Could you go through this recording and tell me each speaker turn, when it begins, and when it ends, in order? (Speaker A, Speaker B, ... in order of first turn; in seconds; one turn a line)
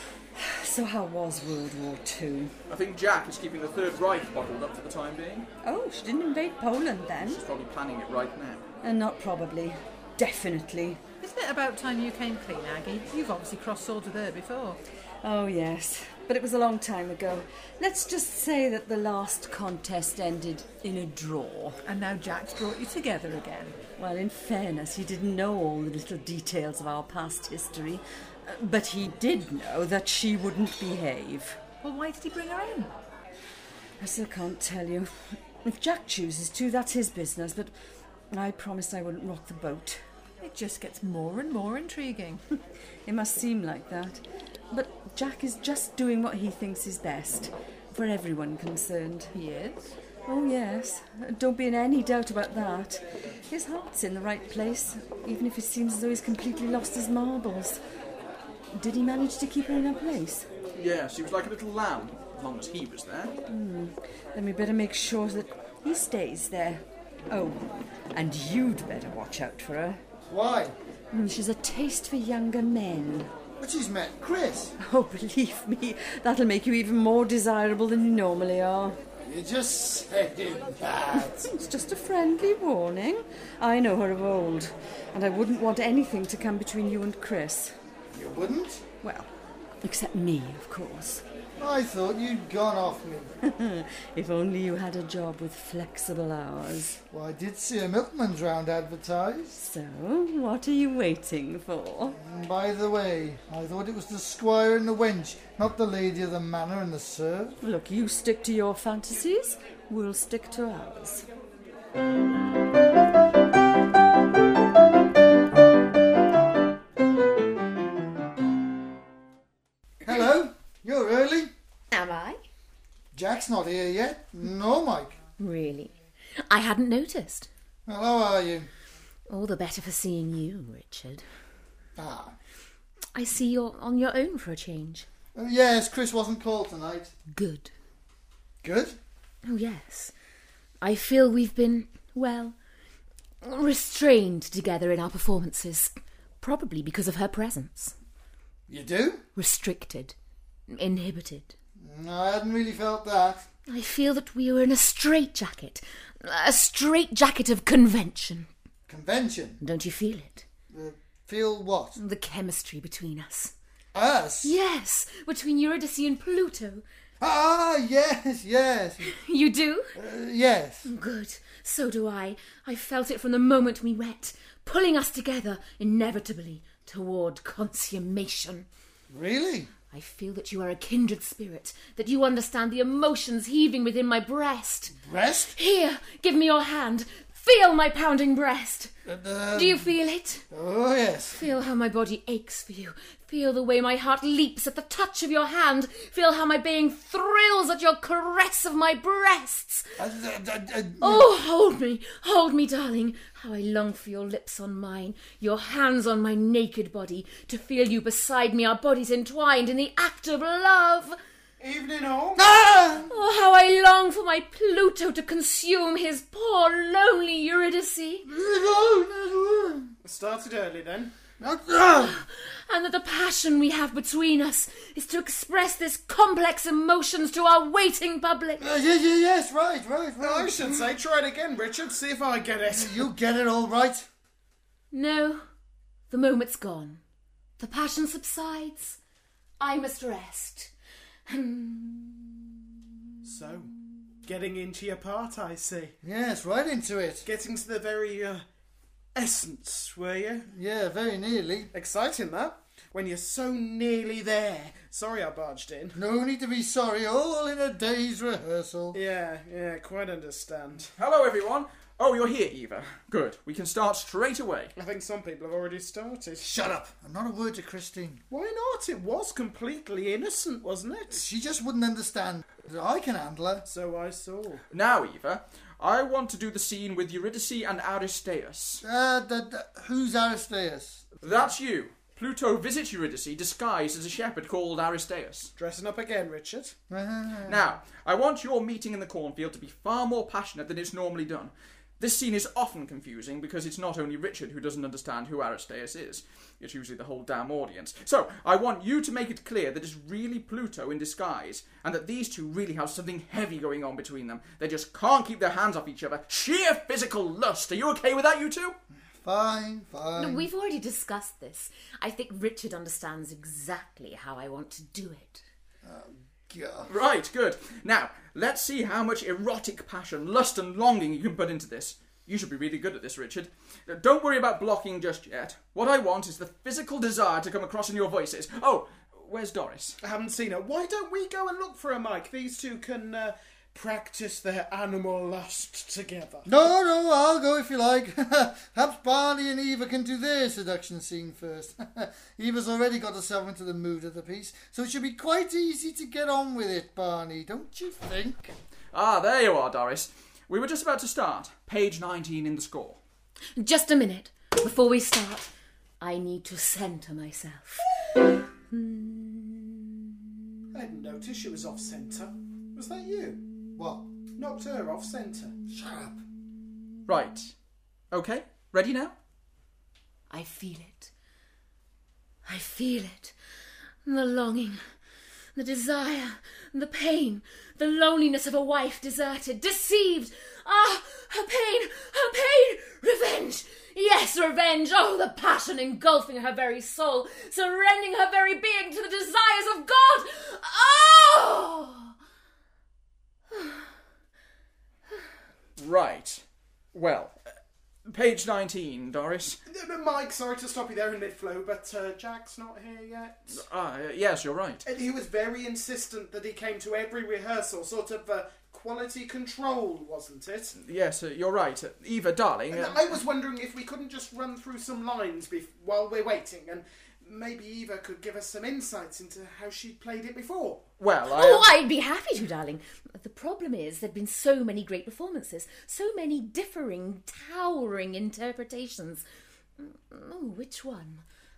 Speaker A: 0.4-2.5
Speaker B: 2.7-5.5
Speaker A: 5.6-7.4
Speaker B: 7.2-8.6
Speaker A: 8.8-11.0
Speaker C: 11.2-14.8
Speaker A: 15.2-21.8
Speaker C: 21.9-23.8
Speaker A: 24.0-31.6
Speaker C: 31.8-32.9
Speaker A: 34.0-35.1
Speaker A: 35.6-37.7
Speaker A: 38.3-40.0
Speaker C: 40.4-42.4
Speaker A: 43.1-49.3
Speaker C: 49.3-49.9
Speaker A: 50.2-57.8
Speaker A: 58.7-60.5
Speaker B: 60.8-63.4
Speaker A: 63.5-67.6
Speaker A: 68.1-70.0
Speaker D: 70.3-70.8
Speaker A: 71.1-73.3
Speaker D: 73.6-74.8
Speaker A: 74.8-79.0
Speaker D: 79.3-81.4
Speaker A: 81.1-87.7
Speaker D: 88.1-88.8
Speaker A: 89.0-89.3
Speaker A: 89.8-91.2
Speaker D: 91.6-93.3
Speaker A: 93.4-97.0
Speaker D: 97.1-99.7
Speaker A: 99.6-102.2
Speaker D: 102.1-107.6
Speaker A: 107.6-111.2
Speaker D: 120.0-121.5
Speaker E: 121.9-122.4
Speaker D: 123.1-125.2
Speaker E: 125.4-125.9
Speaker E: 126.5-127.5
Speaker D: 127.9-128.7
Speaker E: 129.3-131.2
Speaker D: 132.0-132.4
Speaker E: 133.2-135.1
Speaker D: 135.3-137.1
Speaker E: 137.3-137.7
Speaker D: 138.6-139.0
Speaker E: 139.5-140.1
Speaker E: 140.8-142.6
Speaker E: 143.4-147.9
Speaker D: 148.7-149.2
Speaker E: 149.3-150.2
Speaker E: 150.7-151.6
Speaker D: 151.8-153.4
Speaker E: 153.7-158.5
Speaker D: 158.9-159.6
Speaker E: 159.6-160.4
Speaker D: 160.7-162.0
Speaker E: 162.0-163.5
Speaker D: 163.9-164.6
Speaker E: 164.4-166.8
Speaker D: 167.2-169.1
Speaker E: 169.1-169.9
Speaker D: 170.0-170.9
Speaker E: 170.8-178.7
Speaker D: 179.1-179.7
Speaker E: 179.9-185.0
Speaker D: 185.0-185.6
Speaker E: 185.5-188.9
Speaker D: 189.1-189.9
Speaker E: 189.5-190.4
Speaker D: 190.5-191.5
Speaker E: 191.3-199.9
Speaker D: 200.0-201.3
Speaker E: 201.0-211.2
Speaker F: 211.6-212.4
Speaker D: 212.4-213.1
Speaker E: 213.0-218.3
Speaker D: 218.3-219.9
Speaker F: 220.0-221.1
Speaker D: 221.4-222.2
Speaker E: 222.0-228.7
Speaker D: 228.6-230.6
Speaker F: 230.2-233.1
Speaker D: 232.7-234.1
Speaker E: 234.9-235.4
Speaker E: 236.1-237.0
Speaker E: 237.6-239.0
Speaker E: 239.6-240.7
Speaker E: 241.3-242.5
Speaker F: 243.2-243.7
Speaker F: 244.2-245.9
Speaker D: 246.0-247.2
Speaker F: 247.3-248.4
Speaker F: 249.2-250.4
Speaker D: 250.5-251.7
Speaker F: 251.7-255.9
Speaker D: 255.9-259.0
Speaker F: 258.9-260.9
Speaker B: 261.0-264.7
Speaker F: 264.8-266.4
Speaker D: 266.4-268.2
Speaker F: 268.3-271.2
Speaker D: 271.1-273.6
Speaker F: 273.7-274.6
Speaker B: 274.7-278.8
Speaker D: 278.8-281.1
Speaker B: 281.2-285.5
Speaker F: 285.6-286.8
Speaker D: 286.9-287.6
Speaker B: 287.5-308.8
Speaker D: 309.2-310.5
Speaker E: 310.2-315.4
Speaker D: 315.8-316.9
Speaker B: 316.9-330.0
Speaker F: 330.0-336.5
Speaker D: 336.5-348.5
Speaker B: 348.9-353.0
Speaker E: 353.6-357.9
Speaker E: 358.7-359.9
Speaker F: 360.7-363.4
Speaker D: 363.8-364.1
Speaker F: 364.4-365.5
Speaker D: 365.7-366.2
Speaker B: 367.1-367.5
Speaker B: 368.1-369.1
Speaker E: 370.3-371.1
Speaker E: 372.4-373.4
Speaker E: 374.1-374.8
Speaker E: 375.6-392.1
Speaker E: 393.5-393.9
Speaker B: 395.8-396.4
Speaker B: 396.9-397.4
Speaker B: 398.1-399.6
Speaker F: 399.7-403.6
Speaker B: 403.5-404.8
Speaker F: 404.9-410.7
Speaker B: 410.7-413.1
Speaker F: 412.7-420.9
Speaker B: 421.0-421.7
Speaker E: 421.3-429.3
Speaker E: 429.8-431.2